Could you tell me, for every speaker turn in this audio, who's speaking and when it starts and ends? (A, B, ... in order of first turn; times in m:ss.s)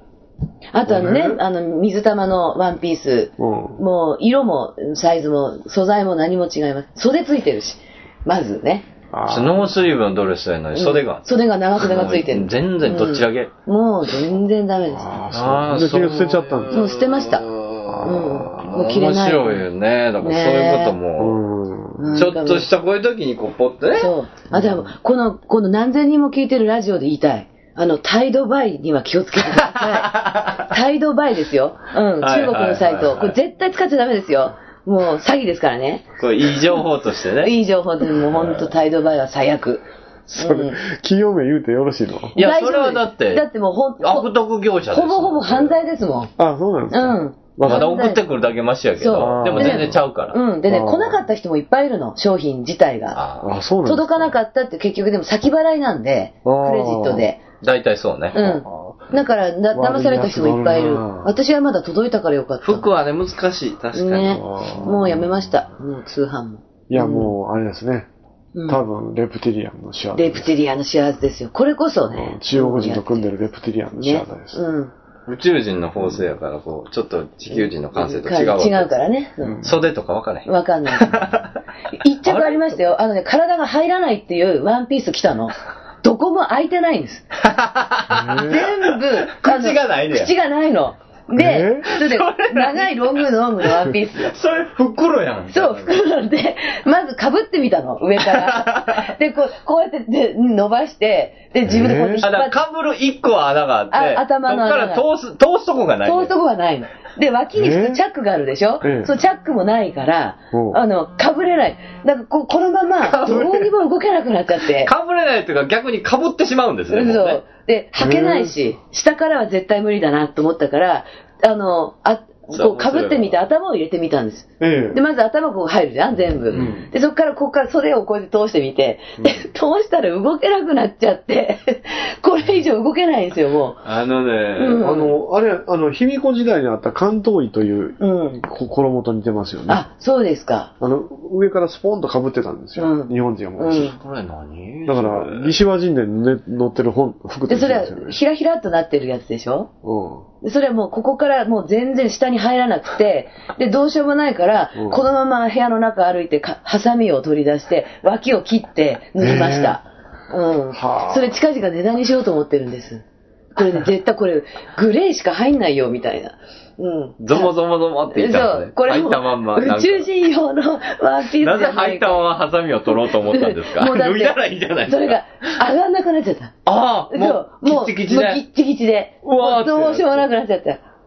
0:00.7-0:08.9 A
0:00.8-0:01.4 B
0:03.4-0:03.8 B
0:09.1-0:09.7 B
0:09.3-0:13.5 C
0:10.7-0:15.2 A
0:14.9-0:16.9 B
0:15.3-0:21.4 C
0:16.7-0:17.4 A
0:17.9-0:18.5 B
0:18.0-0:19.6 A
0:20.2-0:20.9 A
0:21.2-0:22.2 B
0:22.0-0:22.7 A
0:22.1-0:24.1 C
0:24.0-0:36.0 A
0:24.5-0:24.9 B
0:29.6-0:30.7 C
0:32.2-0:33.4 C
0:36.2-0:37.5 C
0:37.4-0:40.8 A
0:38.2-0:38.6 C
0:40.3-0:42.3 B
0:42.3-0:44.3 A
0:42.4-0:43.5 C
0:44.0-0:45.8 C
0:44.9-0:46.3 A
0:46.4-0:47.9 B
0:46.9-0:48.2 A
0:47.6-0:50.4 C
0:49.0-0:53.2 A
0:49.1-0:50.0 B
0:50.7-0:51.2 B
0:53.1-0:53.5 C
0:53.4-0:54.4 B
0:53.8-0:57.4 A
0:56.4-0:57.3 B
0:57.6-0:58.4 C
0:58.3-1:02.8 A
0:58.4-0:59.2 B
0:59.7-1:01.3 B
1:02.6-1:04.4 C
1:03.9-1:07.3 A
1:04.3-1:05.3 B
1:06.9-1:08.1 B
1:08.5-1:08.8 A
1:08.7-1:10.5 B
1:10.1-1:13.3 A
1:12.1-1:14.6 B
1:14.0-1:14.9 A
1:15.3-1:18.9 C
1:17.9-1:19.6 A
1:19.4-1:19.7 B
1:19.6-1:21.5 C
1:20.4-1:21.2 A
1:21.9-1:27.2 A
1:22.2-1:22.8 C
1:27.4-1:30.3 C
1:28.1-1:28.6 B
1:28.5-1:34.3 A
1:31.3-1:31.9 B
1:31.9-1:36.0 C
1:35.5-1:42.6 A
1:38.2-1:39.1 C
1:41.7-1:42.2 B
1:42.2-1:46.3 C
1:43.9-1:45.0 A
1:46.0-1:54.9 A
1:47.5-1:48.0 B
1:48.8-1:49.1 B
1:50.5-1:50.8 B
1:53.0-1:53.7 C
1:54.8-1:57.4 C
1:56.9-2:13.8 A
1:58.0-1:58.5 B
2:02.5-2:03.3 C
2:04.6-2:05.0 B
2:06.5-2:06.9 B
2:13.8-2:14.8 C
2:14.6-2:15.2 A
2:14.8-2:19.8 B
2:18.0-2:18.4 A
2:19.7-2:20.7 A
2:20.8-2:24.0 B
2:22.8-2:24.0 A
2:23.7-2:25.6 C
2:24.8-2:28.2 B
2:27.5-2:29.7 A
2:29.8-2:30.2 B
2:30.4-2:43.0 A
2:34.7-2:35.0 B
2:39.2-2:39.8 B
2:40.7-2:41.3 B
2:43.6-2:47.5 A
2:47.2-2:50.1 C
2:48.1-2:52.2 A
2:51.4-2:55.5 C
2:53.1-2:56.5 A
2:56.6-2:58.4 C
2:57.1-3:00.8 A
2:59.2-3:00.3 C